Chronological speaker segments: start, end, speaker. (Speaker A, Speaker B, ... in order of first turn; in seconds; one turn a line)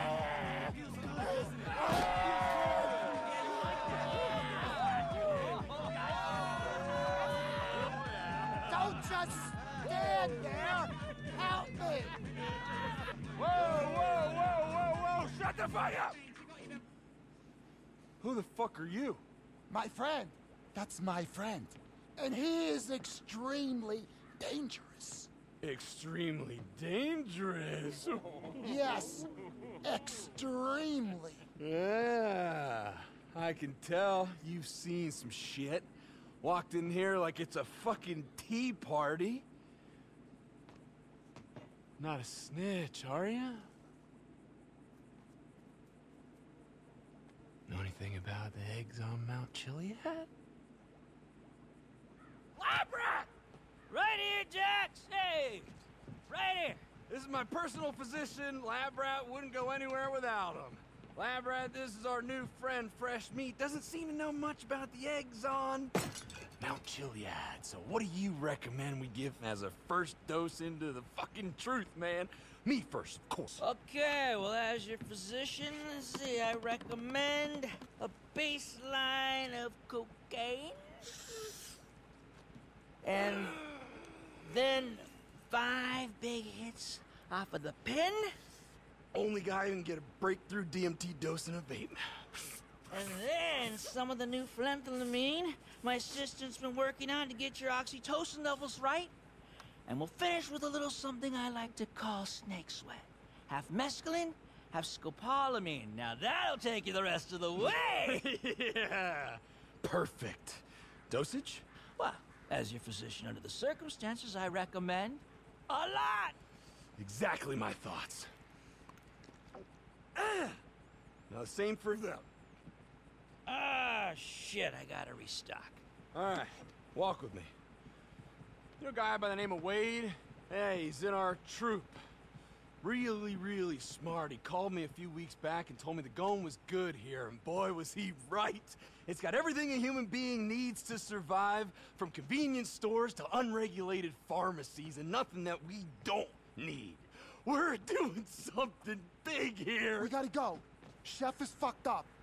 Speaker A: 8.7-12.2
Speaker B: 13.3-16.2
Speaker B: 18.2-19.2
Speaker A: 19.7-25.3
Speaker B: 25.6-28.7
Speaker A: 28.6-29.3
Speaker A: 29.8-31.4
Speaker B: 31.6-35.9
Speaker B: 36.4-39.4
Speaker B: 42.0-43.7
Speaker B: 47.7-50.3
Speaker C: 52.6-53.2
Speaker C: 53.9-55.7
Speaker C: 56.3-56.9
Speaker B: 57.0-65.9
Speaker B: 66.6-73.6
Speaker C: 73.6-81.1
Speaker C: 83.0-83.6
Speaker C: 84.4-88.3
Speaker B: 89.1-92.0
Speaker C: 92.9-99.1
Speaker C: 99.8-108.2
Speaker B: 107.6-111.6
Speaker C: 112.0-116.4
Speaker B: 117.0-118.3
Speaker B: 120.1-120.6
Speaker B: 121.3-122.3
Speaker C: 123.5-125.8
Speaker B: 126.1-127.5
Speaker B: 128.8-132.0
Speaker B: 132.8-150.1
Speaker A: 150.0-152.1